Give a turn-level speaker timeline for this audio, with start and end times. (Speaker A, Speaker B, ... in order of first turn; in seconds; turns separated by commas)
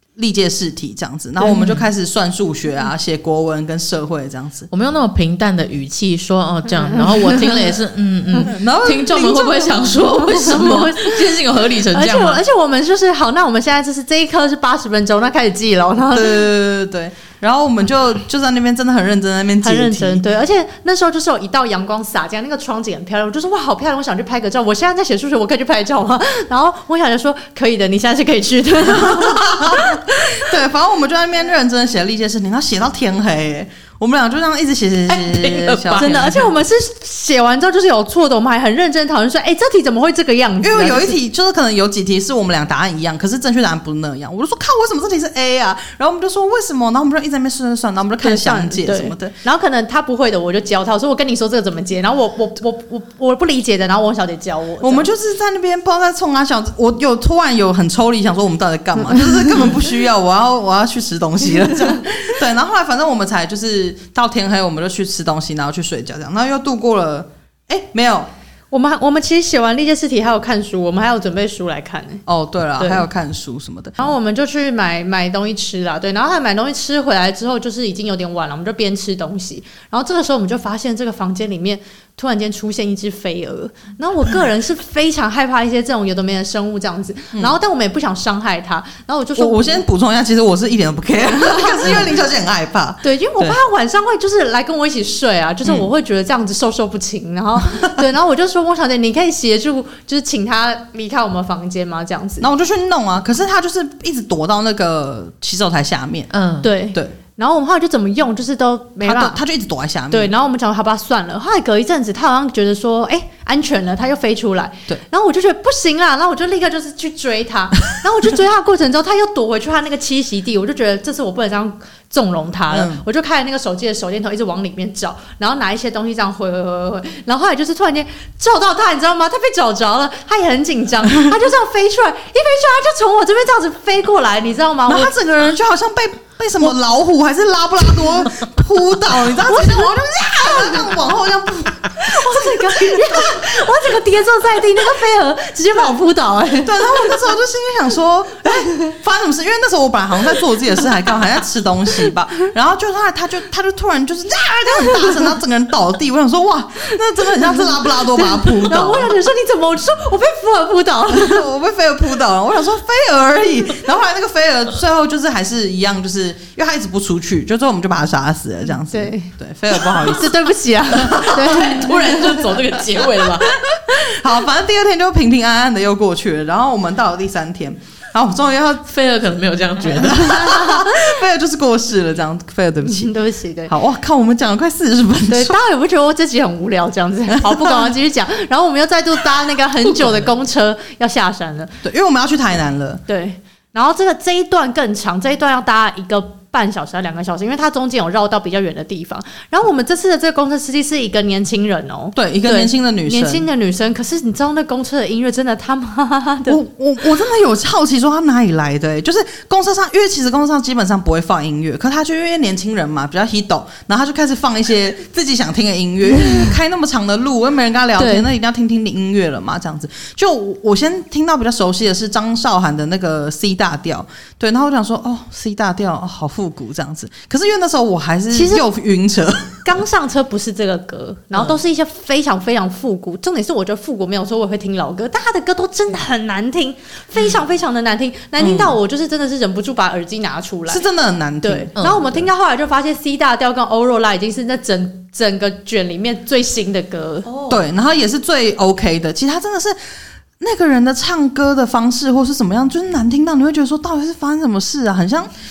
Speaker A: 0.1-4.7, Speaker B: 1.4-1.8, Speaker B: 4.7-12.4, Speaker C: 7.0-7.7, Speaker A: 8.4-10.7, Speaker C: 10.2-11.3, Speaker C: 11.9-16.4, Speaker A: 16.1-20.2, Speaker C: 19.6-30.5, Speaker A: 28.9-36.5, Speaker B: 35.1-36.4, Speaker C: 36.0-41.2, Speaker A: 40.6-49.3, Speaker C: 48.2-55.1, Speaker A: 54.8-68.3, Speaker C: 68.7-72.2, Speaker A: 72.2-74.1, Speaker C: 72.8-73.1, Speaker C: 74.0-89.8, Speaker A: 89.3-93.6, Speaker C: 91.4-92.1, Speaker C: 93.0-102.5, Speaker A: 102.4-106.3, Speaker B: 106.3-106.7, Speaker C: 106.6-109.4, Speaker A: 109.0-110.3, Speaker C: 110.1-135.1, Speaker A: 122.7-123.0, Speaker A: 134.9-143.6, Speaker C: 139.4-140.9, Speaker C: 142.0-147.3, Speaker A: 146.6-159.1, Speaker C: 148.4-148.9, Speaker C: 157.8-161.5, Speaker A: 161.1-170.4, Speaker C: 168.9-172.6, Speaker A: 170.9-171.9, Speaker B: 171.1-173.5, Speaker A: 173.9-178.9, Speaker B: 178.9-180.6, Speaker A: 179.9-183.1, Speaker C: 180.2-181.1, Speaker C: 182.8-183.7, Speaker A: 183.7-185.6, Speaker C: 185.3-191.8, Speaker A: 187.3-187.9, Speaker A: 191.8-193.0, Speaker C: 193.1-206.6, Speaker A: 202.1-203.4, Speaker A: 206.4-229.6, Speaker C: 218.0-218.3, Speaker C: 228.3-228.6, Speaker C: 229.6-240.8, Speaker A: 238.4-238.8, Speaker A: 240.7-241.7, Speaker C: 241.4-247.3, Speaker B: 241.8-242.0, Speaker B: 247.2-247.6, Speaker A: 247.5-249.8, Speaker A: 250.4-255.3